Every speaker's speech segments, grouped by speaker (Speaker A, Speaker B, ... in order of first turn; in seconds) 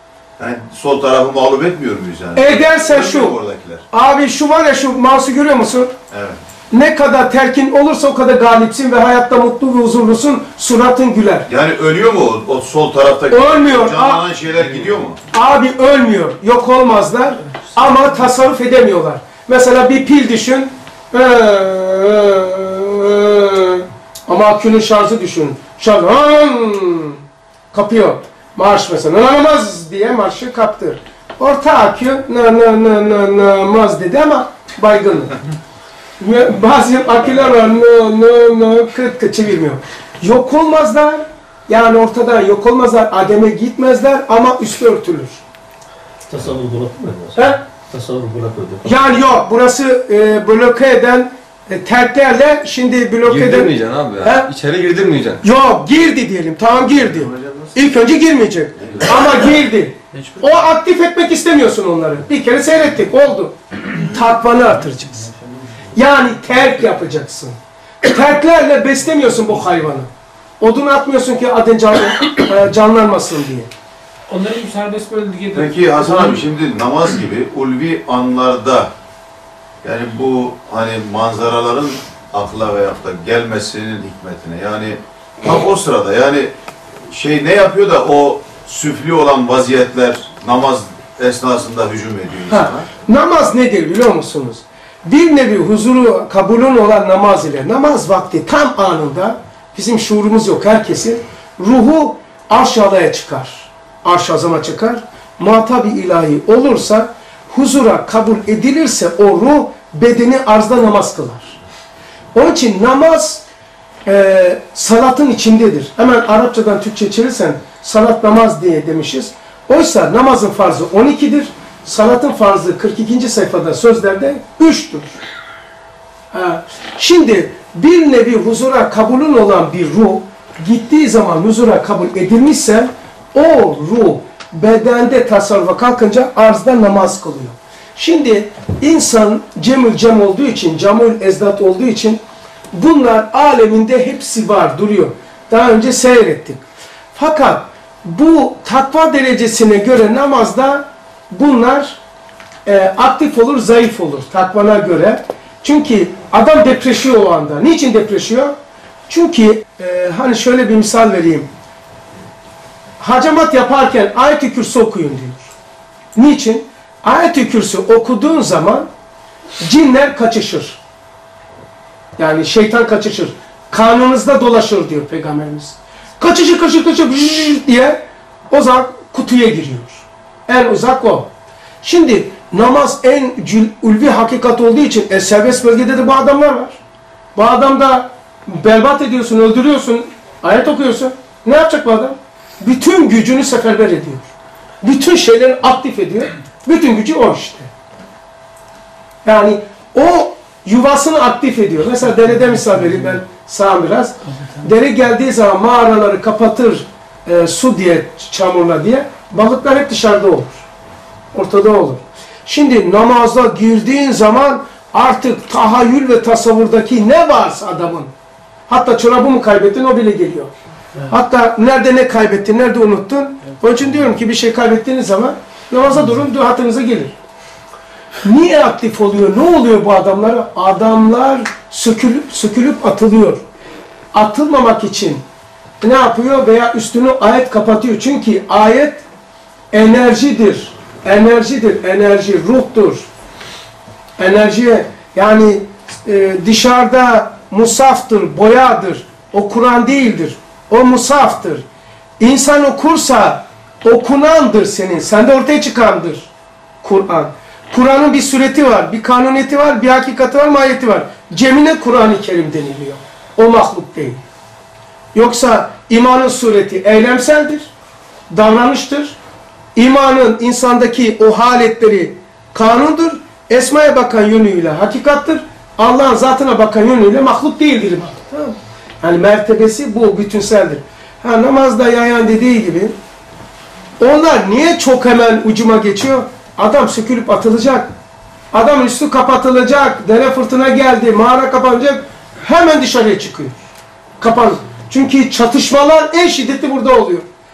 Speaker A: 0.4-3.9, 6.1-6.4, 11.5-15.2, 57.2-57.8, 58.8-59.3, 75.5-78.9, 79.8-86.5, 87.1-92.9
Speaker B: 2.4-3.4, 3.9-5.9, 6.7-11.5, 13.3-14.2, 15.3-27.2, 27.7-35.4, 36.2-45.4, 47.3-47.6, 48.8-54.5, 55.4-65.3, 66.0-70.1, 70.6-73.7, 92.5-111.6, 112.3-113.4, 114.1-125.2, 126.3-142.2, 142.7-146.6, 147.2-152.0, 152.7-158.6, 159.1-161.5, 163.0-165.5, 166.2-168.9, 169.6-170.8, 172.2-181.3, 181.8-186.8, 187.3-194.3, 194.8-197.7, 199.2-210.6, 211.3-218.1, 218.7-220.5, 221.1-227.1, 228.2-233.4, 234.1-235.2, 235.8-239.0, 239.7-243.1, 244.2-251.6, 252.2-256.3, 256.8-264.2, 265.1-267.7, 268.3-269.2, 269.8-282.9, 284.0-287.9, 288.5-293.6, 294.2-297.3
Speaker C: 46.3-47.3, 47.9-48.8
Speaker D: 53.2-55.4
Speaker E: 74.3-76.3